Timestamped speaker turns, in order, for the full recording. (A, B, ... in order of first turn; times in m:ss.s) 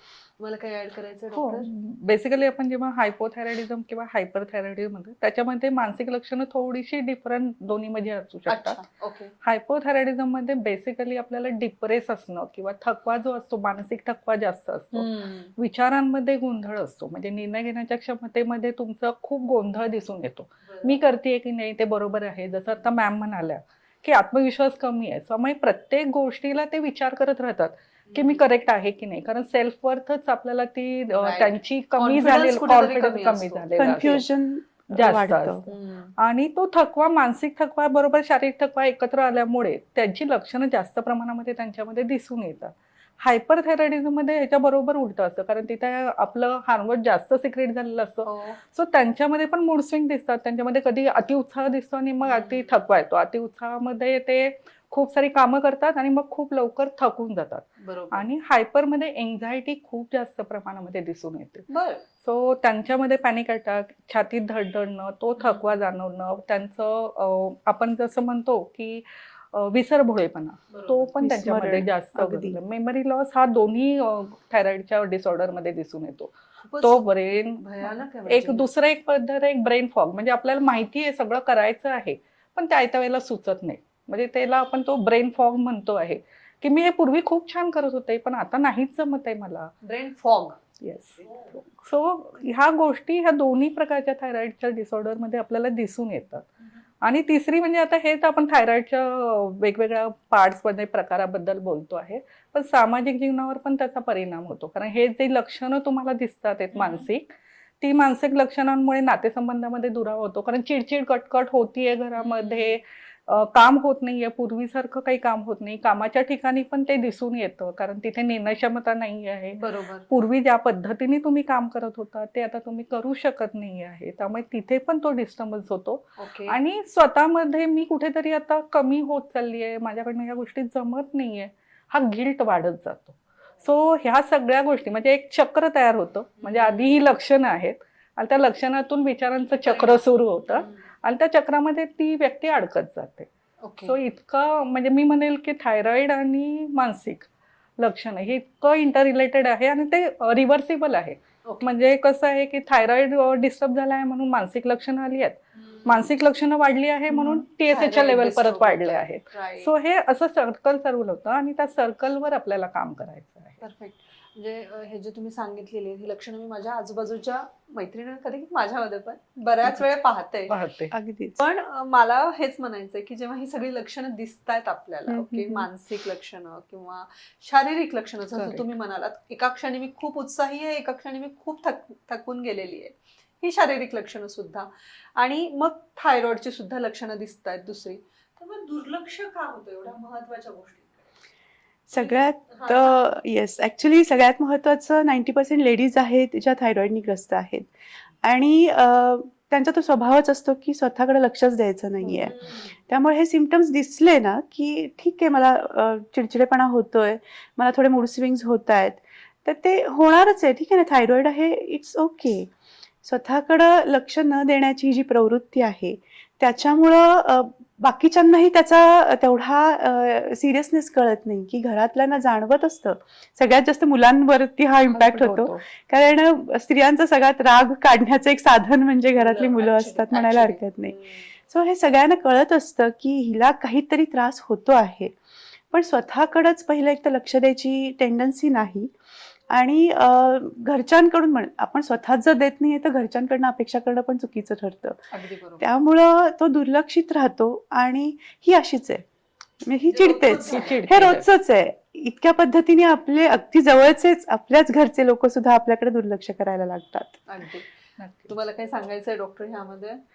0:00.4-0:01.7 A
0:01.3-0:08.8 B
0:08.5-0:09.3 A
0:09.4-0:34.2 B
0:14.9-0:15.5 A
0:20.6-0:21.0 A
0:28.1-0:28.4 A
0:31.2-0:34.2 A
0:33.8-0:35.6 C
0:34.9-1:29.7 B
0:35.7-0:36.1 A
0:48.2-0:48.6 A
0:52.2-0:52.8 A
0:57.8-0:58.2 A
1:01.7-1:02.0 A
1:05.4-1:05.7 A
1:10.7-1:11.1 A
1:11.2-1:12.6 C
1:16.6-1:18.7 A
1:29.8-1:30.6 A
1:30.8-1:36.5 B
1:37.0-1:47.3 B
1:46.7-1:47.1 A
1:47.8-2:23.3 B
1:52.2-1:52.8 A
1:59.6-2:00.0 A
2:06.2-2:06.6 A
2:16.4-2:17.0 A
2:19.6-2:20.8 A
2:23.6-2:24.0 A
2:23.8-2:27.3 B
2:27.8-2:43.6 B
2:31.4-2:31.7 A
2:35.5-2:36.0 A
2:37.1-2:37.4 C
2:37.7-2:39.7 A
2:43.6-2:50.6 A
2:50.5-2:50.9 B
2:50.9-2:51.4 C
2:51.4-3:11.0 A
2:55.1-2:55.5 B
2:58.3-2:58.7 B
3:11.9-3:17.7 C
3:11.9-3:13.0 A
3:18.2-3:32.5 C
3:22.1-3:22.8 A
3:33.0-3:55.1 C
3:44.9-3:45.6 B
3:49.1-3:51.3 A
3:55.7-3:58.9 C
3:59.5-4:05.1 C
4:05.1-4:05.6 A
4:05.6-4:09.0 C
4:09.6-4:17.2 C
4:09.9-4:10.9 A
4:10.4-4:11.3 B
4:17.3-4:17.8 A
4:18.0-4:18.3 B
4:18.3-4:20.0 A